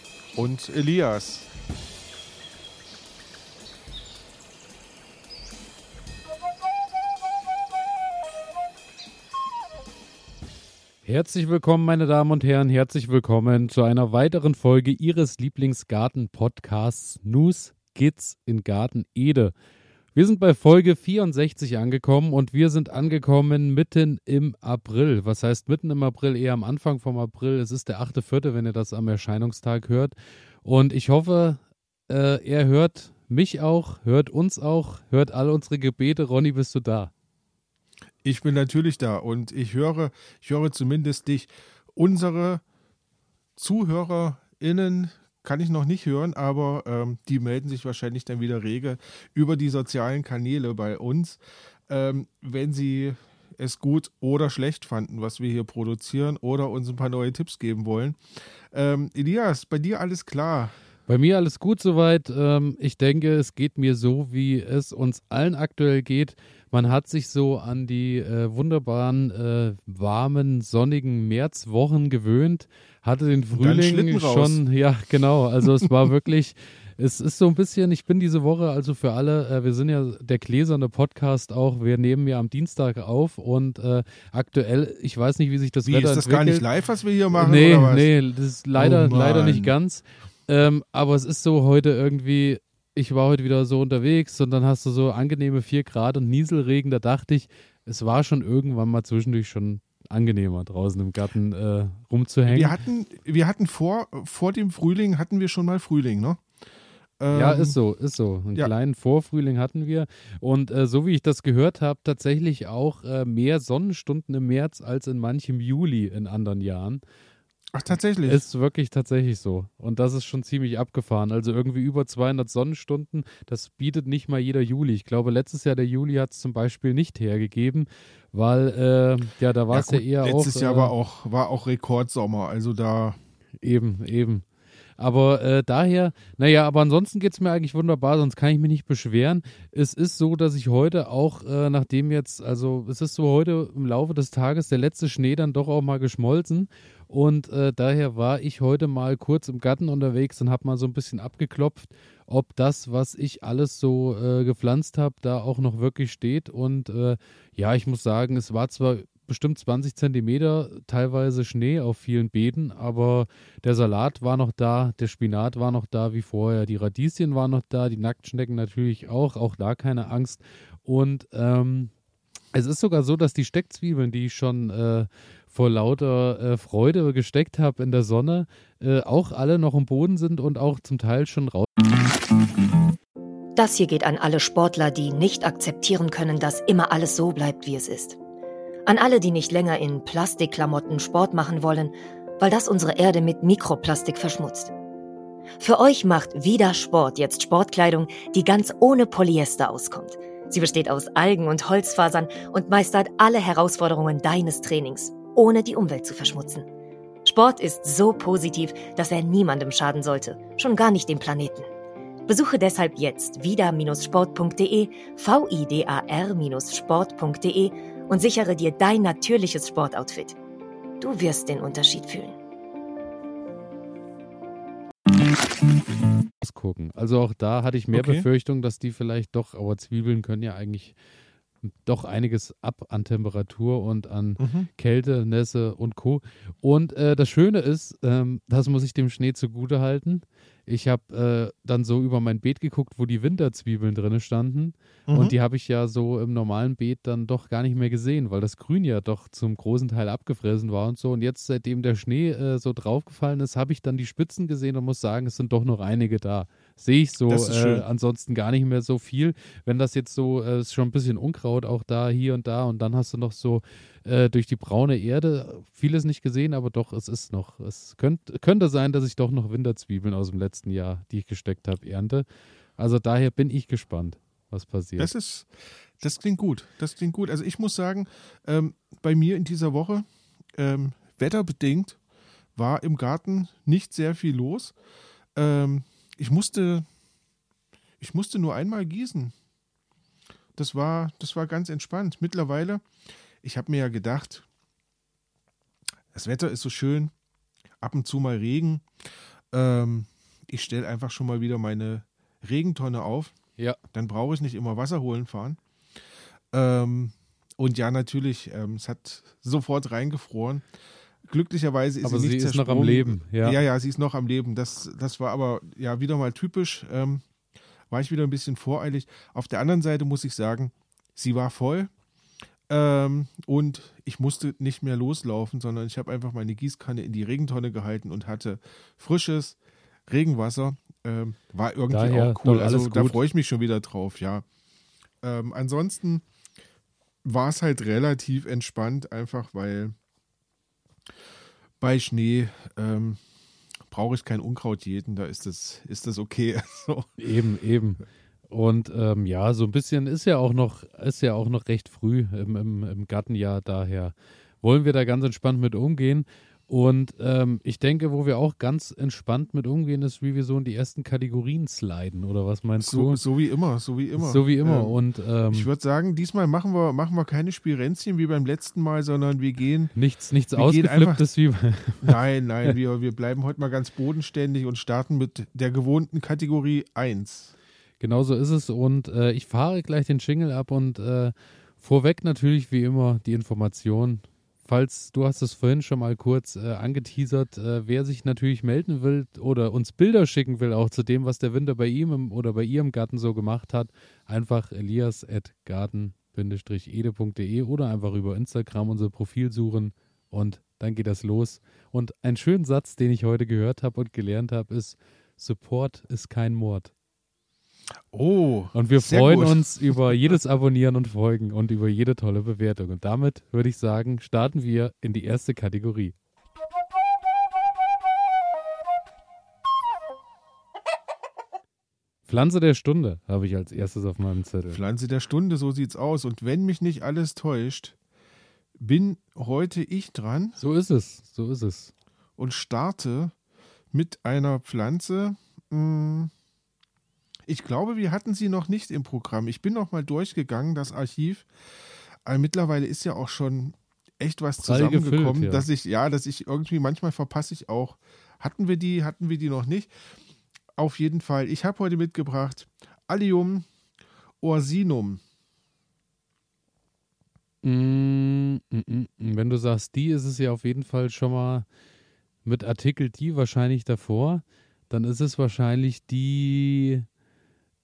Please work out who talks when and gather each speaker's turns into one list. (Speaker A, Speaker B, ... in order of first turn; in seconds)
Speaker A: 0.3-1.5, 38.2-42.6, 43.6-60.7, 73.5-74.6, 85.8-88.1, 88.8-89.7, 102.5-106.4, 107.2-107.8, 117.7-118.5, 129.7-133.2, 227.9-228.3, 234.4-234.7, 245.1-245.3, 257.3-257.9, 275.0-282.0, 282.6-284.8, 285.4-286.9, 288.0-289.3, 290.6-292.9, 293.4-294.5, 296.1-297.1, 297.8-298.9, 299.5-303.3, 303.9-305.6, 306.5-310.7, 311.2-317.2, 317.9-321.9, 322.7-329.6, 330.1-334.4, 335.2-336.2, 337.2-339.9, 341.8-343.2, 343.9-347.1, 362.8-365.0, 365.5-369.9, 370.6-371.2, 372.0-377.5, 408.1-410.4, 424.7-428.0, 428.8-430.6, 432.4-433.4, 433.9-436.3, 437.5-441.5, 442.2-449.9, 450.8-453.7, 454.4-455.2
Speaker B: 11.0-19.5, 20.1-37.1, 61.1-86.7, 87.3-102.8, 107.3-117.0, 118.3-130.9, 133.6-134.5, 135.0-171.9, 172.5-181.7, 226.4-231.0, 231.7-272.3, 272.8-275.1, 312.0-313.6, 331.9-333.2, 347.2-363.2, 364.2-365.7, 369.9-372.2, 378.0-406.9, 408.7-416.1, 422.3-424.8, 430.6-431.9, 444.6-445.7, 457.6-461.7, 462.4-467.1
Speaker C: 183.6-188.2, 188.9-194.7, 195.6-206.7, 207.2-211.7, 212.3-220.4, 221.0-222.4